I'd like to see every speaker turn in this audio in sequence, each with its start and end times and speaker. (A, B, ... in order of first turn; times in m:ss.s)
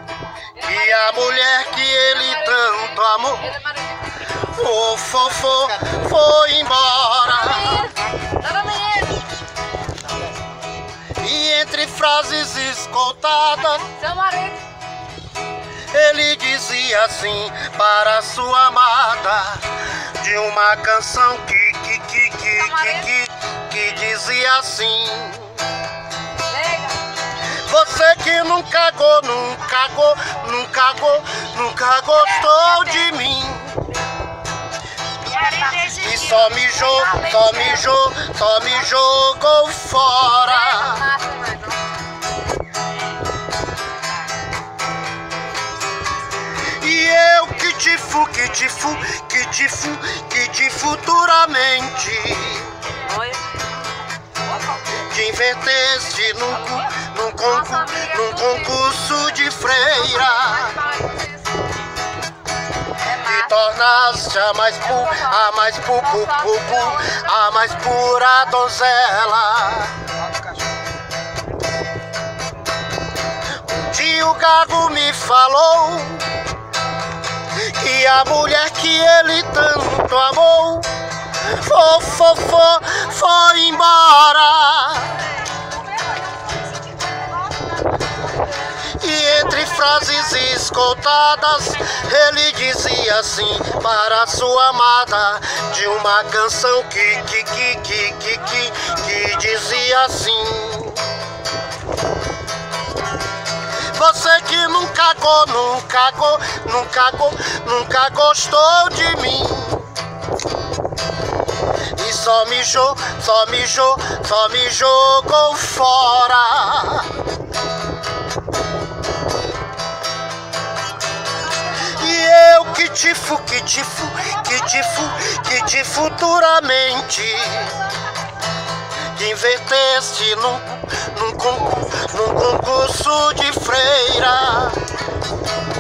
0:00.6-0:03.5 A
0:03.6-0:04.1 B
0:04.4-0:07.9 A
0:07.4-0:09.3 B
0:11.2-0:13.9 A
0:13.8-0:14.7 B
0:15.9-0:25.7 A
0:22.6-0:23.0 B
0:26.5-0:27.0 B
0:27.6-0:33.9 A
0:35.3-0:36.1 B
0:35.8-0:41.1 A
0:37.0-0:37.5 B
0:40.6-0:41.8 B
0:46.8-0:52.8 A
0:53.1-0:53.4 B
0:55.0-1:00.8 A
0:57.8-0:58.6 B
1:00.2-1:01.4 B
1:03.1-1:10.0 A
1:06.2-1:07.2 B
1:13.7-1:16.3 A
1:17.7-1:25.3 A
1:28.9-1:41.2 A
1:43.9-1:50.0 A
1:52.0-1:57.1 A
2:01.8-2:07.8 A
2:09.1-2:14.9 A